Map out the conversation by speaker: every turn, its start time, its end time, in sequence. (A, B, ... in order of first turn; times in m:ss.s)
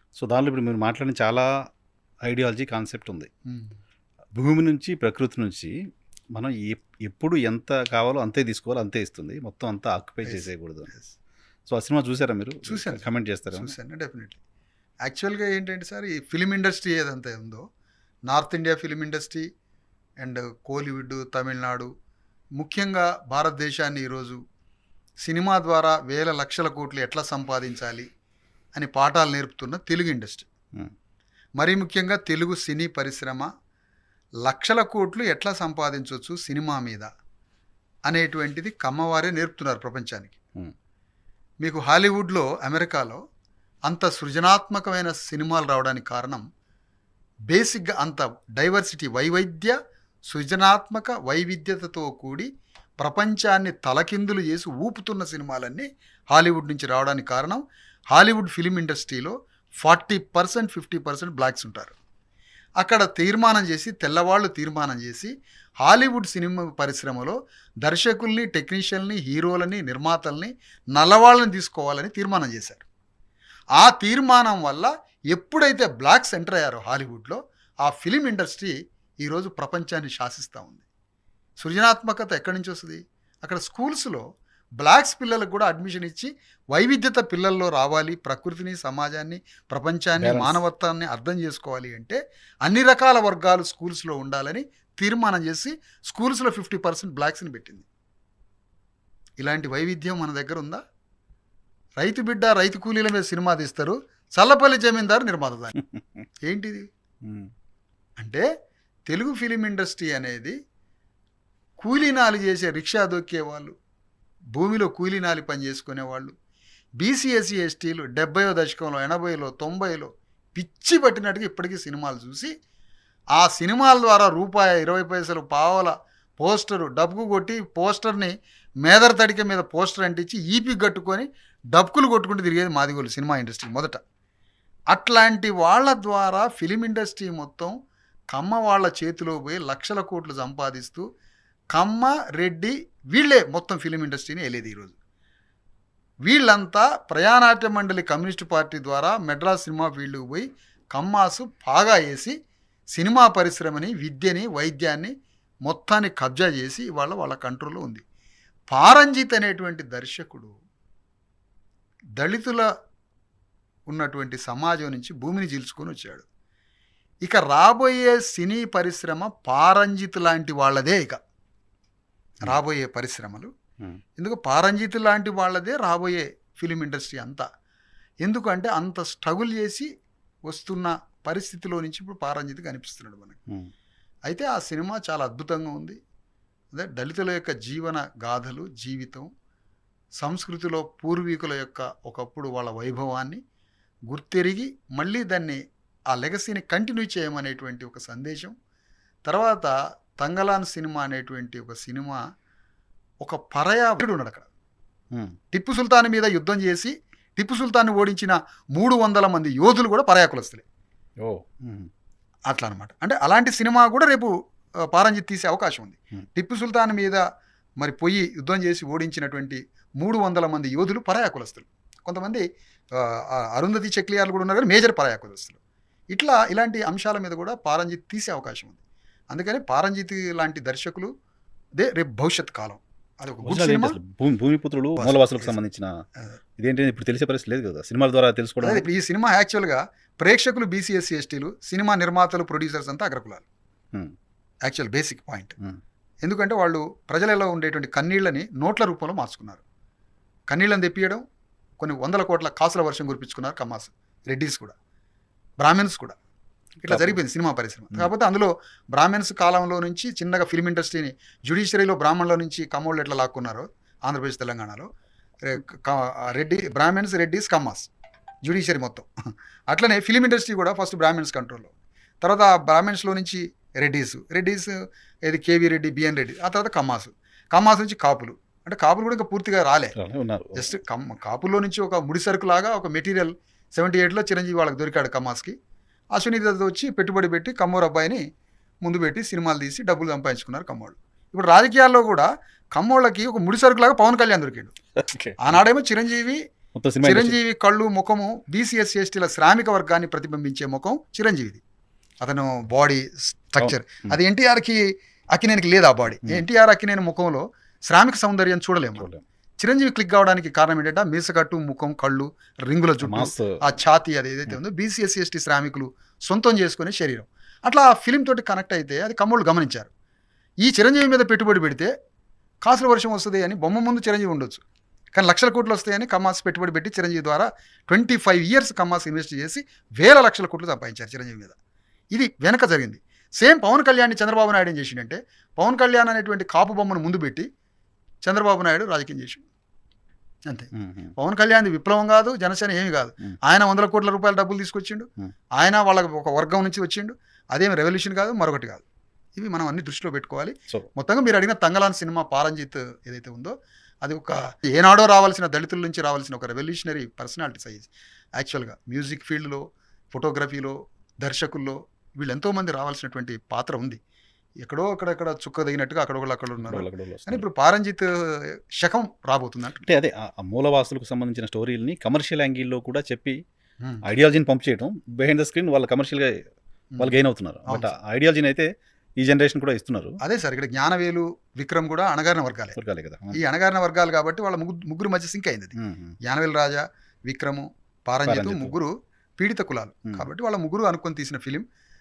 0:00.2-0:01.5 A
0:02.2-0:03.3 A
0:03.4-0:03.8 B
0:04.4-0:05.7 A
0:06.3-0:10.9 A
0:10.2-0:11.1 B
0:11.7-0:13.7 A
0:12.6-0:14.4 B
0:15.0-0:17.6 B
0:18.3-0:19.5 B
0:20.2-0:21.9 B
0:22.6-0:24.4 B
0:25.2-0:28.1 B
0:28.7-0:30.5 B
0:31.6-0:33.5 B
0:34.4-0:37.1 B
0:38.1-0:40.4 B
0:41.6-0:43.2 B
0:43.9-0:46.4 B
0:47.5-0:49.7 B
0:50.3-0:52.5 B
0:53.0-1:02.0 B
1:02.8-1:05.3 B
1:05.8-1:12.8 B
1:13.8-1:20.8 B
1:21.6-1:24.2 B
1:24.8-1:37.8 B
1:30.2-1:30.6 A
1:39.4-1:40.8 B
1:42.0-1:45.7 B
1:46.4-1:46.9 B
1:47.2-1:47.5 A
1:48.2-1:48.4 B
1:49.1-1:50.6 B
1:51.8-1:53.7 B
1:54.5-1:56.3 B
1:57.0-2:02.5 B
2:03.4-2:14.0 B
2:14.9-2:17.8 B
2:18.3-2:21.0 B
2:21.7-2:25.0 B
2:26.2-2:32.4 B
2:32.9-2:35.1 B
2:35.6-2:38.0 B
2:38.7-2:40.6 B
2:42.2-2:42.7 B
2:43.9-2:46.2 B
2:47.2-2:51.2 B
2:52.4-2:53.5 B
2:54.2-2:57.4 B
2:58.2-2:59.9 B
3:00.5-3:03.4 B
3:04.3-3:06.0 B
3:06.7-3:09.3 B
3:10.2-3:13.4 B
3:14.1-3:15.6 B
3:16.1-3:18.5 B
3:19.2-3:22.2 B
3:23.2-3:24.5 B
3:25.5-3:30.6 B
3:31.2-3:31.9 A
3:32.5-3:37.2 B
3:37.8-3:42.4 B
3:42.9-3:45.6 B
3:46.1-3:48.8 B
3:49.3-3:51.1 B
3:51.8-3:54.0 B
3:53.4-3:55.9 A
3:55.0-3:55.5 B
3:56.6-3:58.8 A
3:58.6-4:03.4 B
4:04.6-4:05.6 B
4:06.2-4:09.6 B
4:10.5-4:11.2 B
4:11.8-4:14.8 B
4:15.6-4:16.2 B
4:16.8-4:24.9 B
4:16.9-4:17.1 A
4:25.4-4:27.9 B
4:28.4-4:29.1 B
4:29.7-4:40.0 B
4:40.0-4:40.6 A
4:40.5-4:45.6 B
4:46.1-4:48.2 B
4:48.8-4:54.7 B
4:55.0-4:55.4 A
4:55.4-4:56.4 B
4:56.7-4:57.4 A
4:57.0-5:01.6 B
5:02.2-5:19.9 B
5:03.6-5:04.1 A
5:09.0-5:09.2 A
5:13.0-5:13.6 A
5:20.6-5:21.9 B
5:22.6-5:24.6 B
5:25.1-5:31.6 B
5:32.1-5:37.5 B
5:38.2-5:39.4 B
5:40.4-5:48.8 B
5:40.8-5:41.1 A
5:49.4-6:04.0 B
6:04.6-6:09.9 B
6:06.6-6:07.4 A
6:09.8-6:13.4 A
6:14.0-6:16.3 A
6:17.0-6:20.2 A
6:20.2-6:22.8 B
6:22.8-6:23.4 A
6:23.3-6:31.6 B
6:25.8-6:26.1 A
6:28.2-6:28.7 A